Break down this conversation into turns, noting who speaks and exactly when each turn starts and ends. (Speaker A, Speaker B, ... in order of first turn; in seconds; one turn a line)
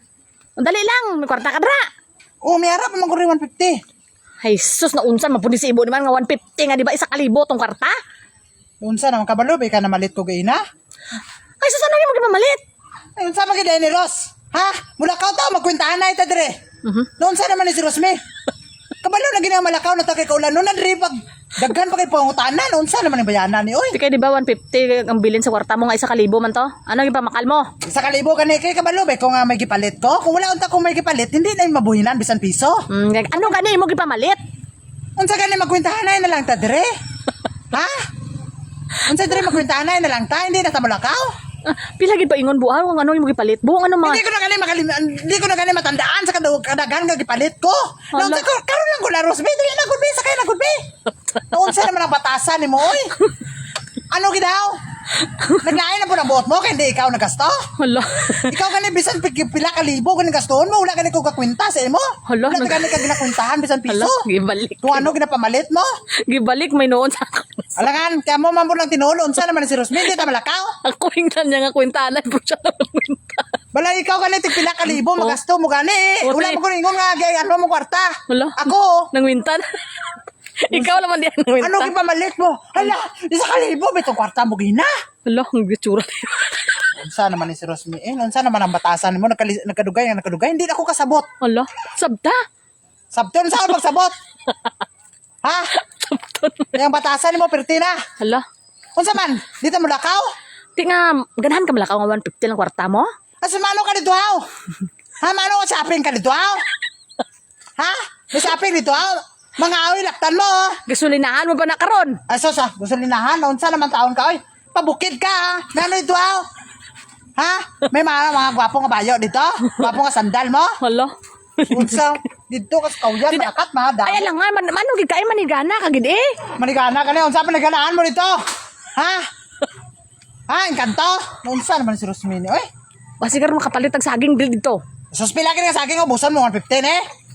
Speaker A: 0.6-1.9
Speaker B: 2.4-3.8
Speaker A: 4.4-8.0
Speaker B: 8.8-10.6
Speaker A: 11.6-12.6
Speaker B: 13.2-16.6
Speaker A: 16.8-17.1
Speaker B: 17.2-18.2
Speaker B: 19.0-24.0
Speaker A: 23.9-27.7
Speaker B: 27.8-32.8
Speaker A: 32.9-34.4
Speaker B: 35.2-36.9
Speaker B: 37.7-38.1
Speaker B: 39.0-41.3
Speaker A: 41.6-44.2
Speaker B: 44.0-53.2
Speaker A: 48.1-48.5
Speaker B: 54.1-54.8
Speaker A: 55.3-55.7
Speaker B: 55.5-57.7
Speaker A: 57.8-58.6
Speaker B: 58.3-64.2
Speaker A: 62.3-63.4
Speaker A: 63.9-65.1
Speaker B: 64.8-65.9
Speaker A: 66.2-67.8
Speaker B: 67.8-70.8
Speaker A: 70.8-73.5
Speaker B: 73.7-79.1
Speaker A: 74.8-75.4
Speaker A: 76.2-76.6
Speaker A: 78.3-81.9
Speaker B: 80.7-81.0
Speaker B: 81.6-84.9
Speaker A: 85.3-86.9
Speaker B: 86.9-91.3
Speaker A: 91.4-92.4
Speaker B: 93.1-94.1
Speaker B: 95.4-95.7
Speaker A: 95.7-96.8
Speaker B: 96.7-98.0
Speaker A: 98.2-98.5
Speaker B: 99.0-100.3
Speaker A: 100.8-103.1
Speaker B: 103.4-104.5
Speaker B: 105.2-106.6
Speaker B: 107.8-110.8
Speaker A: 110.9-112.2
Speaker B: 112.3-116.5
Speaker B: 117.4-120.8
Speaker A: 120.8-122.2
Speaker B: 121.7-124.2
Speaker A: 124.0-126.4
Speaker B: 126.6-128.4
Speaker B: 128.9-129.3
Speaker B: 130.5-132.7
Speaker A: 133.2-134.8
Speaker B: 135.1-137.0